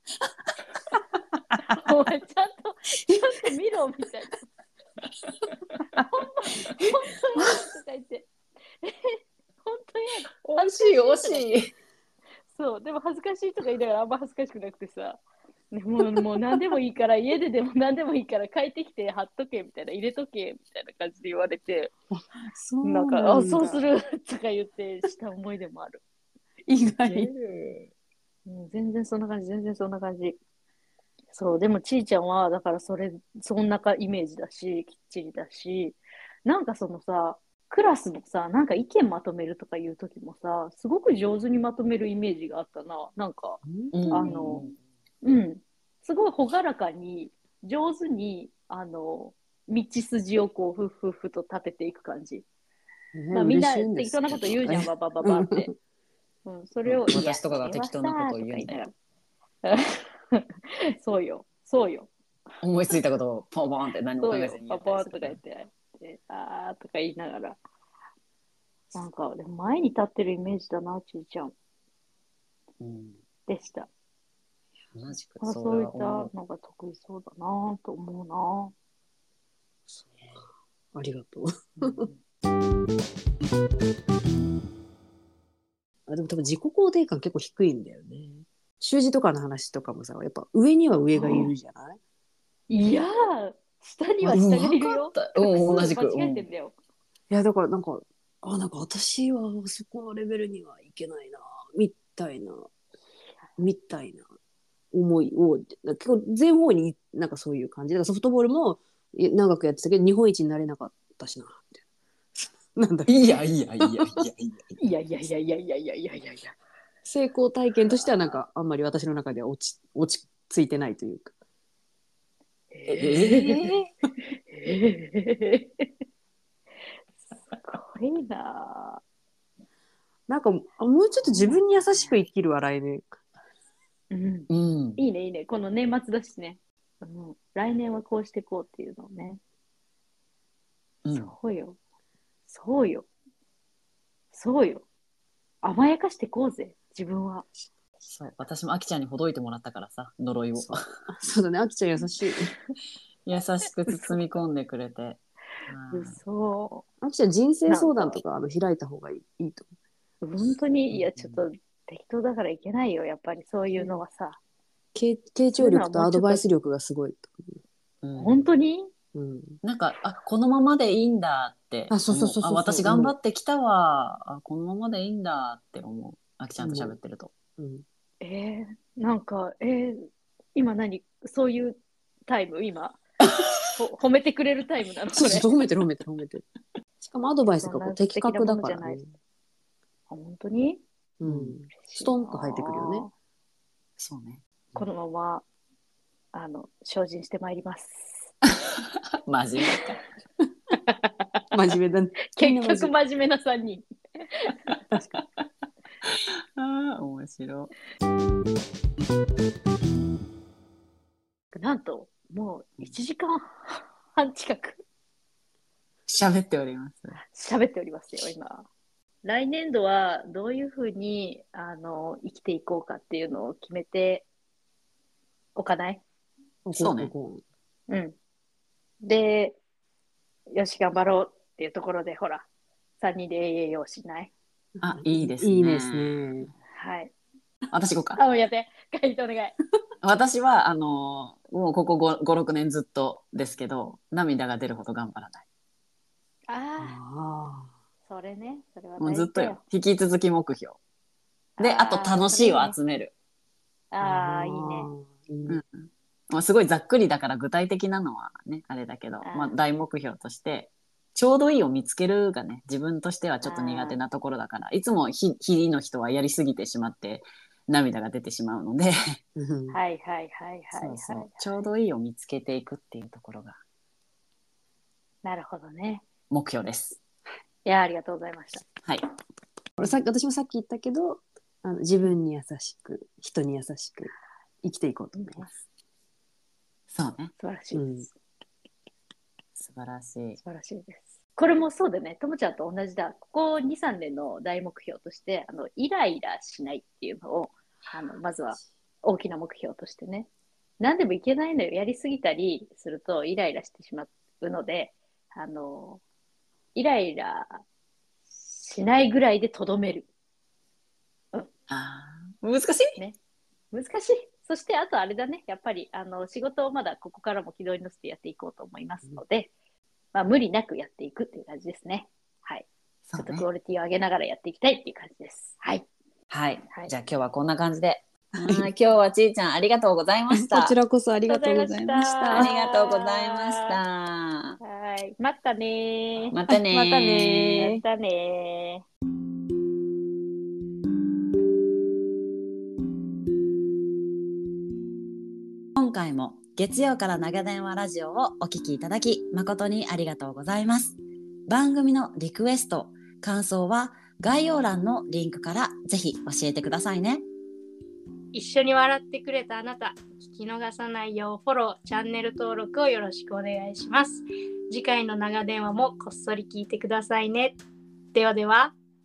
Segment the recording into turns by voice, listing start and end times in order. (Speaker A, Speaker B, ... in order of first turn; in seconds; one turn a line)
Speaker A: 1.7-4.5
Speaker A: 6.0-8.3
Speaker A: 8.8-11.5
Speaker B: 10.4-11.7
Speaker A: 12.5-21.9
Speaker C: 22.1-23.8
Speaker A: 22.8-26.0
Speaker C: 26.7-27.3
Speaker B: 26.9-27.9
Speaker A: 28.4-30.4
Speaker A: 31.3-44.7
Speaker C: 43.6-44.4
Speaker B: 43.9-44.7
Speaker A: 45.2-52.5
Speaker C: 53.1-55.7
Speaker A: 53.3-55.7
Speaker A: 56.5-58.9
Speaker B: 56.9-58.9
Speaker A: 59.6-62.1
Speaker B: 62.6-65.4
Speaker A: 64.2-67.6
Speaker A: 68.9-71.5
Speaker B: 72.8-73.2
Speaker A: 73.5-73.9
Speaker B: 74.9-76.3
Speaker A: 75.4-78.7
Speaker C: 80.9-82.1
Speaker A: 81.8-82.2
Speaker C: 86.1-92.0
Speaker A: 91.1-91.5
Speaker A: 92.7-96.8
Speaker B: 94.2-96.5
Speaker C: 97.3-102.7
Speaker C: 103.6-104.2
Speaker C: 104.9-111.8
Speaker C: 112.4-113.2
Speaker B: 113.1-114.8
Speaker A: 114.8-116.5
Speaker C: 117.0-121.3
Speaker A: 122.7-123.6
Speaker B: 122.9-123.9
Speaker A: 124.5-125.9
Speaker A: 127.5-129.0
Speaker C: 130.3-133.1
Speaker A: 131.2-132.1
Speaker A: 134.1-139.4
Speaker B: 134.5-135.0
Speaker B: 141.1-141.3
Speaker A: 141.1-141.8
Speaker A: 142.5-143.1
Speaker A: 144.3-144.9
Speaker A: 145.6-147.5
Speaker B: 148.1-150.8
Speaker C: 150.6-152.5
Speaker B: 153.3-156.2
Speaker A: 153.9-154.2
Speaker A: 155.9-156.8
Speaker C: 157.0-159.7
Speaker A: 157.7-158.2
Speaker A: 160.2-164.4
Speaker B: 160.9-161.4
Speaker C: 164.9-167.6
Speaker A: 165.6-166.4
Speaker B: 168.0-168.4
Speaker A: 168.2-168.9
Speaker C: 169.1-169.6
Speaker B: 169.6-177.3
Speaker C: 171.9-173.1
Speaker C: 176.6-176.9
Speaker C: 177.6-177.8
Speaker A: 178.2-183.0
Speaker A: 183.8-185.5
Speaker C: 185.1-186.4
Speaker C: 187.0-189.1
Speaker A: 187.6-189.0
Speaker A: 190.1-190.8
Speaker C: 191.2-193.1
Speaker B: 191.2-191.6
Speaker A: 191.7-193.1
Speaker B: 194.0-194.8
Speaker A: 194.8-195.4
Speaker A: 196.3-198.3
Speaker B: 198.5-200.0
Speaker A: 200.9-201.1
Speaker C: 201.5-202.9
Speaker A: 202.3-204.5
Speaker B: 206.6-207.7
Speaker A: 211.5-214.8
Speaker B: 216.1-217.2
Speaker A: 217.2-218.7
Speaker A: 219.2-224.3
Speaker A: 225.6-226.0
Speaker C: 226.6-227.4
Speaker B: 226.8-227.1
Speaker A: 227.9-228.1
Speaker A: 229.0-229.6
Speaker A: 230.5-232.4
Speaker A: 233.0-234.3
Speaker C: 234.8-236.5
Speaker B: 234.8-236.3
Speaker A: 236.7-237.1
Speaker B: 237.7-238.2
Speaker A: 238.2-239.6
Speaker B: 240.0-245.4
Speaker A: 246.5-247.0
Speaker C: 246.8-247.7
Speaker A: 248.1-249.6
Speaker B: 249.0-250.8
Speaker A: 251.6-252.8
Speaker B: 251.6-253.1
Speaker A: 253.9-254.9
Speaker C: 254.0-255.6
Speaker B: 255.5-269.2
Speaker A: 259.2-259.6
Speaker A: 263.4-264.0
Speaker C: 269.4-269.8
Speaker A: 269.7-271.5
Speaker B: 270.8-273.6
Speaker A: 275.2-276.1
Speaker B: 276.3-277.0
Speaker A: 277.6-278.7
Speaker C: 279.8-284.1
Speaker C: 284.6-285.5
Speaker A: 285.1-285.6
Speaker B: 286.9-287.3
Speaker A: 287.4-288.1
Speaker C: 287.7-288.1
Speaker B: 289.6-290.4
Speaker A: 290.4-300.3
Speaker A: 300.8-306.0
Speaker A: 306.7-307.6
Speaker A: 308.4-310.1
Speaker B: 311.7-313.0
Speaker A: 313.7-319.5
Speaker A: 320.1-325.9
Speaker B: 323.1-323.5
Speaker B: 326.3-330.8
Speaker C: 328.4-328.7
Speaker C: 330.3-332.5
Speaker A: 331.3-333.8
Speaker B: 332.2-334.6
Speaker A: 334.6-336.4
Speaker B: 336.3-337.6
Speaker C: 336.5-337.8
Speaker A: 337.6-338.9
Speaker D: 345.8-350.9
Speaker D: 351.5-357.2
Speaker E: 358.3-367.6
Speaker E: 368.1-368.7